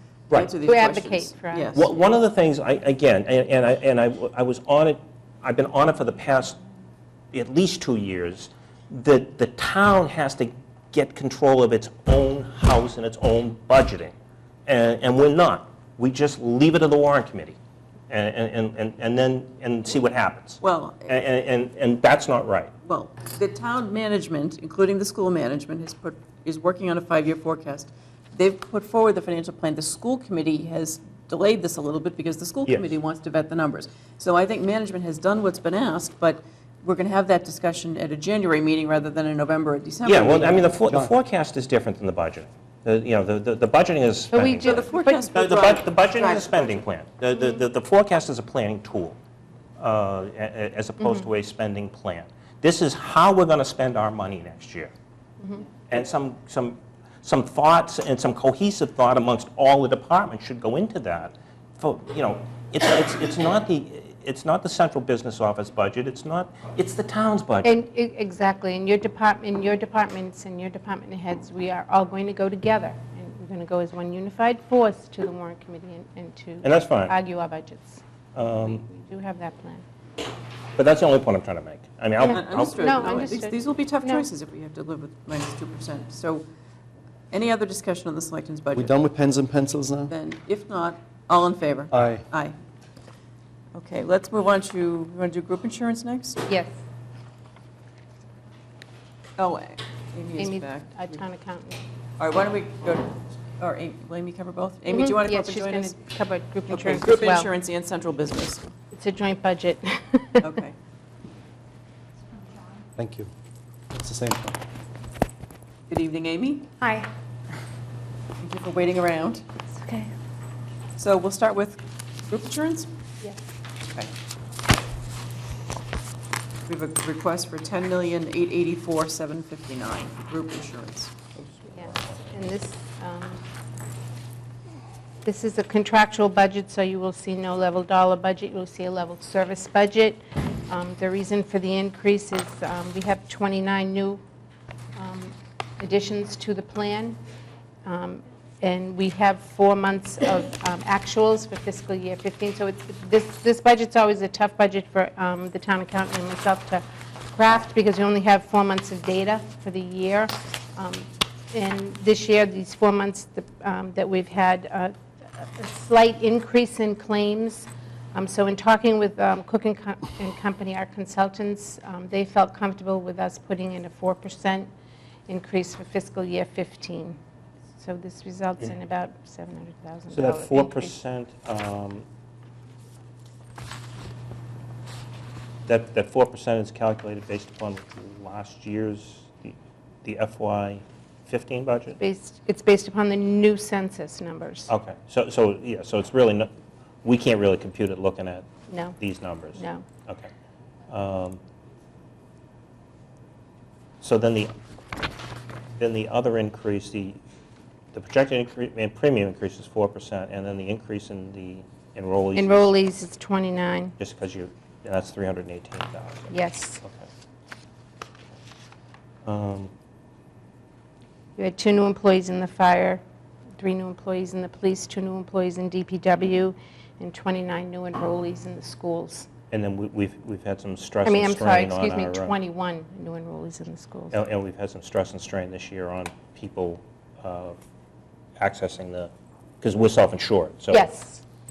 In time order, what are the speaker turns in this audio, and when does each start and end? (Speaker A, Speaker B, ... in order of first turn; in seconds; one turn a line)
Speaker A: 0.3-1.9
Speaker B: 0.6-1.7
Speaker C: 1.7-6.6
Speaker C: 7.3-14.1
Speaker C: 14.7-17.6
Speaker C: 18.1-22.7
Speaker A: 20.6-21.1
Speaker A: 22.8-40.7
Speaker C: 32.7-32.9
Speaker C: 40.0-49.2
Speaker D: 40.8-41.1
Speaker B: 44.3-45.3
Speaker A: 44.6-46.7
Speaker C: 49.8-54.9
Speaker B: 51.0-51.3
Speaker C: 55.9-67.7
Speaker B: 67.6-79.8
Speaker C: 76.6-77.1
Speaker C: 78.3-78.9
Speaker C: 80.8-83.2
Speaker B: 82.2-84.2
Speaker A: 82.3-86.4
Speaker A: 87.3-89.0
Speaker D: 88.7-90.1
Speaker A: 90.1-92.5
Speaker D: 91.9-92.2
Speaker A: 93.7-96.4
Speaker B: 96.5-96.8
Speaker A: 99.4-101.2
Speaker B: 100.4-101.8
Speaker A: 102.2-106.0
Speaker B: 104.9-107.5
Speaker A: 106.7-108.7
Speaker B: 108.9-110.5
Speaker A: 110.4-110.7
Speaker D: 113.0-113.3
Speaker D: 113.9-114.6
Speaker A: 115.9-116.7
Speaker B: 116.8-117.1
Speaker A: 118.4-119.4
Speaker B: 119.7-120.1
Speaker A: 121.0-122.9
Speaker A: 126.7-131.1
Speaker C: 131.4-132.3
Speaker B: 131.7-133.4
Speaker B: 135.2-144.2
Speaker B: 144.9-147.2
Speaker B: 147.8-174.7
Speaker B: 175.3-177.2
Speaker B: 177.8-180.9
Speaker C: 180.1-182.1
Speaker C: 185.7-192.0
Speaker B: 192.0-194.7
Speaker C: 194.7-196.5
Speaker C: 197.0-198.5
Speaker B: 198.7-199.0
Speaker C: 199.0-200.3
Speaker B: 199.6-199.8
Speaker C: 200.9-201.4
Speaker C: 204.0-204.5
Speaker C: 205.8-207.2
Speaker C: 207.9-212.6
Speaker B: 212.3-213.9
Speaker C: 214.0-217.1
Speaker B: 216.3-216.8
Speaker C: 219.2-219.7
Speaker B: 221.4-223.0
Speaker B: 223.6-229.3
Speaker C: 229.5-232.3
Speaker B: 231.0-234.2
Speaker C: 234.1-237.6
Speaker C: 238.4-239.1
Speaker C: 239.6-240.9
Speaker B: 240.7-241.2